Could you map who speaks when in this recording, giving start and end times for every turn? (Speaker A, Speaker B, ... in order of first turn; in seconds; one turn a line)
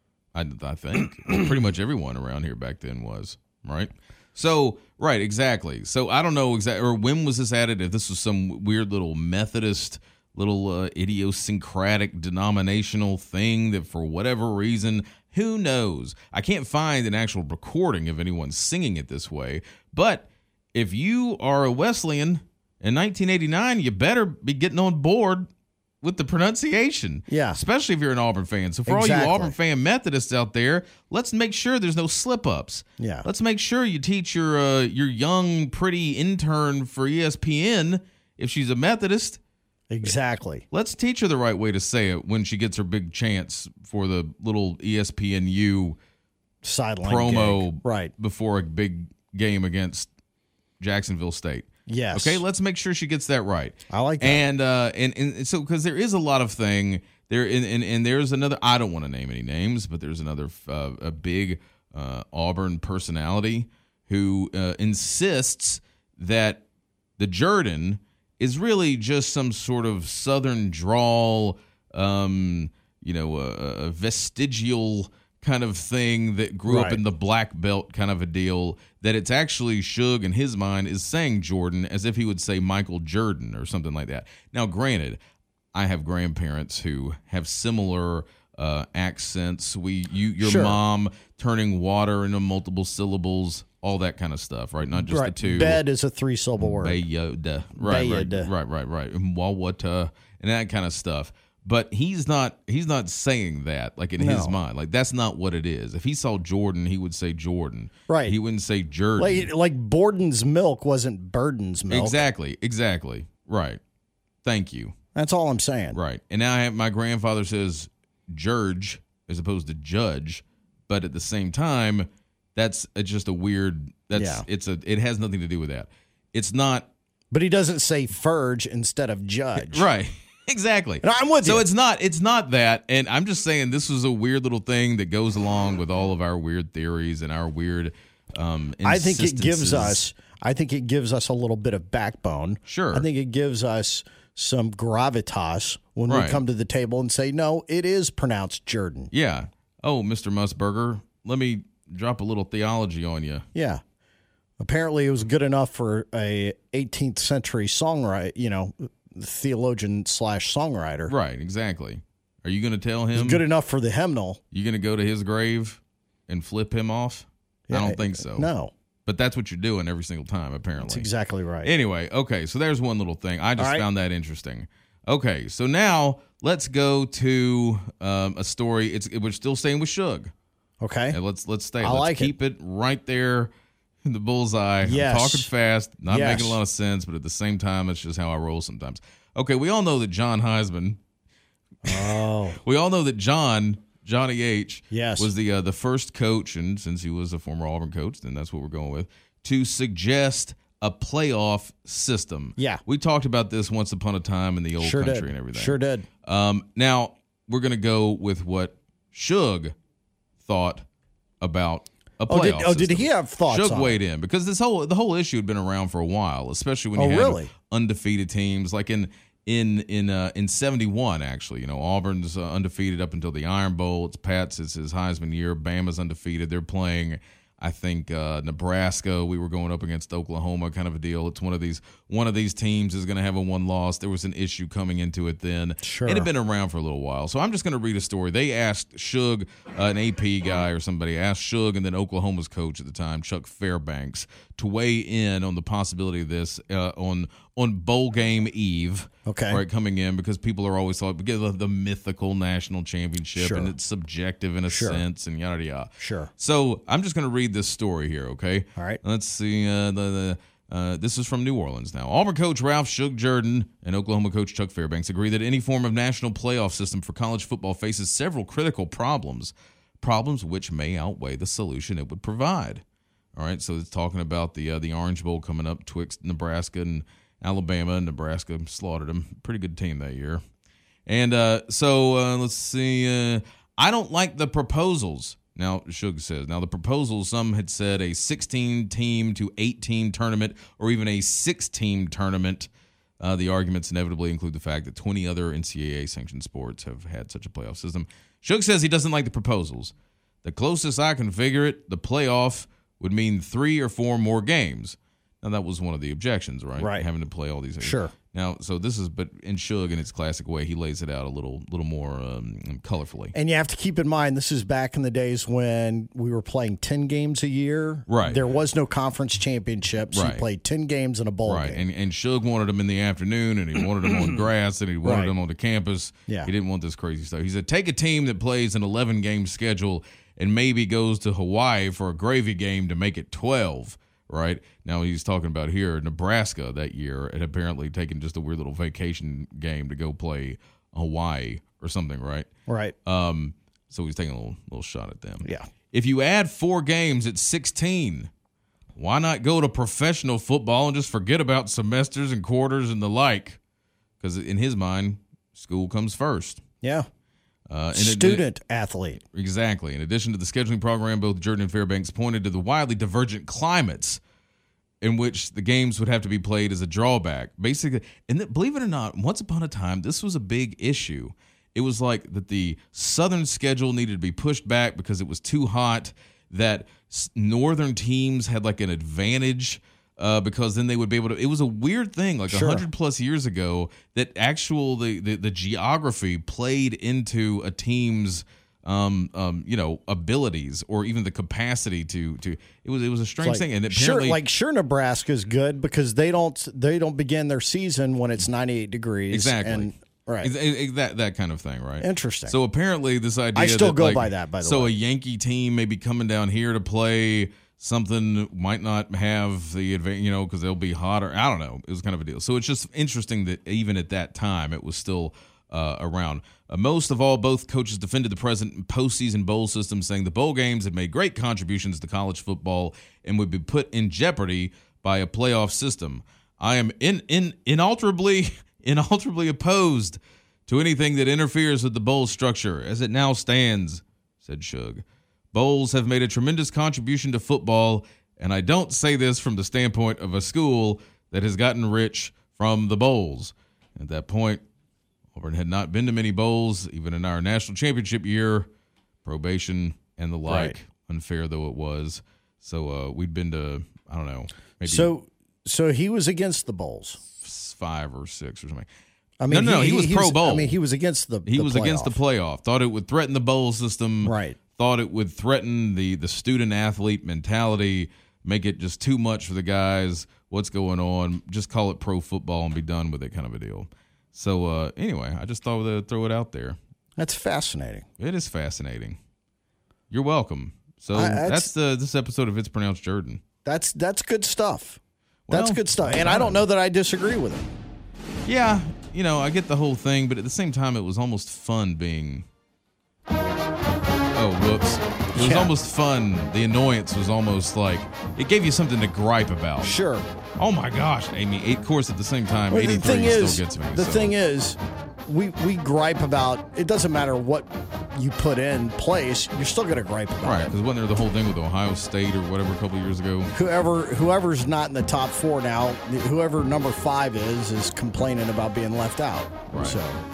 Speaker A: 0.3-25.5
Speaker A: 26.0-39.4
Speaker B: 27.3-27.6
Speaker B: 28.9-29.5
Speaker B: 33.0-33.3
Speaker B: 39.9-40.6
Speaker A: 40.7-46.0
Speaker B: 46.6-48.1
Speaker A: 47.0-50.1
Speaker A: 50.8-66.6
Speaker B: 51.9-52.4
Speaker B: 53.9-54.4
Speaker A: 67.2-85.2
Speaker B: 76.7-77.0
Speaker A: 85.7-95.8
Speaker B: 90.4-90.8
Speaker B: 95.0-97.0
Speaker A: 96.6-109.5
Speaker B: 97.8-98.5
Speaker B: 104.2-104.6
Speaker B: 108.1-108.3
Speaker B: 109.2-112.3
Speaker A: 111.9-113.8
Speaker A: 114.4-114.9
Speaker B: 115.1-116.0
Speaker A: 115.9-126.9
Speaker B: 124.1-124.4
Speaker B: 127.3-129.8
Speaker A: 129.6-140.0
Speaker B: 131.0-131.7
Speaker B: 138.8-149.1
Speaker A: 142.7-143.1
Speaker A: 146.1-146.4
Speaker A: 149.1-153.4
Speaker B: 153.5-153.8
Speaker B: 154.6-161.1
Speaker A: 161.1-163.4
Speaker B: 163.1-164.4
Speaker A: 164.5-168.5
Speaker B: 167.7-168.7
Speaker A: 169.1-171.1
Speaker B: 170.8-171.7
Speaker A: 171.6-180.3
Speaker B: 173.6-173.8
Speaker B: 180.8-181.2
Speaker A: 181.1-183.5
Speaker B: 181.8-182.3
Speaker A: 184.0-191.0
Speaker B: 184.8-185.5
Speaker B: 186.1-186.6
Speaker B: 191.8-192.6
Speaker A: 191.9-209.7
Speaker B: 194.9-195.3
Speaker B: 202.6-202.8
Speaker B: 204.8-206.1
Speaker A: 210.4-210.8
Speaker A: 211.4-272.8
Speaker B: 212.3-214.0
Speaker B: 217.0-217.5
Speaker B: 235.8-236.3
Speaker B: 249.2-249.6
Speaker B: 253.3-253.7
Speaker B: 254.7-255.0
Speaker B: 256.0-256.3
Speaker A: 273.4-280.4
Speaker A: 281.1-292.7
Speaker A: 293.2-299.9
Speaker A: 300.4-313.3
Speaker B: 306.8-307.1
Speaker B: 307.8-308.1
Speaker B: 313.3-321.8
Speaker A: 318.1-318.4
Speaker A: 320.1-320.4
Speaker A: 321.4-342.5
Speaker B: 325.0-325.3
Speaker B: 342.7-342.9
Speaker A: 343.1-348.3
Speaker A: 349.0-353.6
Speaker A: 354.2-356.6
Speaker A: 357.7-358.4
Speaker B: 357.9-359.2
Speaker A: 359.3-364.2
Speaker A: 365.0-394.4
Speaker B: 382.5-382.9
Speaker B: 393.4-400.5
Speaker A: 399.3-444.6
Speaker B: 402.0-402.6
Speaker B: 403.5-404.9
Speaker A: 445.3-448.7
Speaker A: 449.2-455.1
Speaker B: 450.5-450.8
Speaker B: 454.8-457.2
Speaker A: 457.4-458.9
Speaker B: 459.4-462.2
Speaker A: 459.5-460.8
Speaker A: 461.4-476.8
Speaker B: 464.2-464.6
Speaker B: 477.2-478.1
Speaker A: 478.2-479.2
Speaker A: 480.1-483.4
Speaker B: 481.1-481.7
Speaker B: 483.6-485.0
Speaker A: 485.5-486.6
Speaker B: 485.5-487.6
Speaker A: 488.4-492.4
Speaker A: 494.3-499.9
Speaker B: 495.3-495.7
Speaker B: 499.8-500.2
Speaker A: 500.6-504.4
Speaker B: 502.7-510.7
Speaker A: 510.4-513.5
Speaker B: 513.5-520.2
Speaker A: 519.7-520.0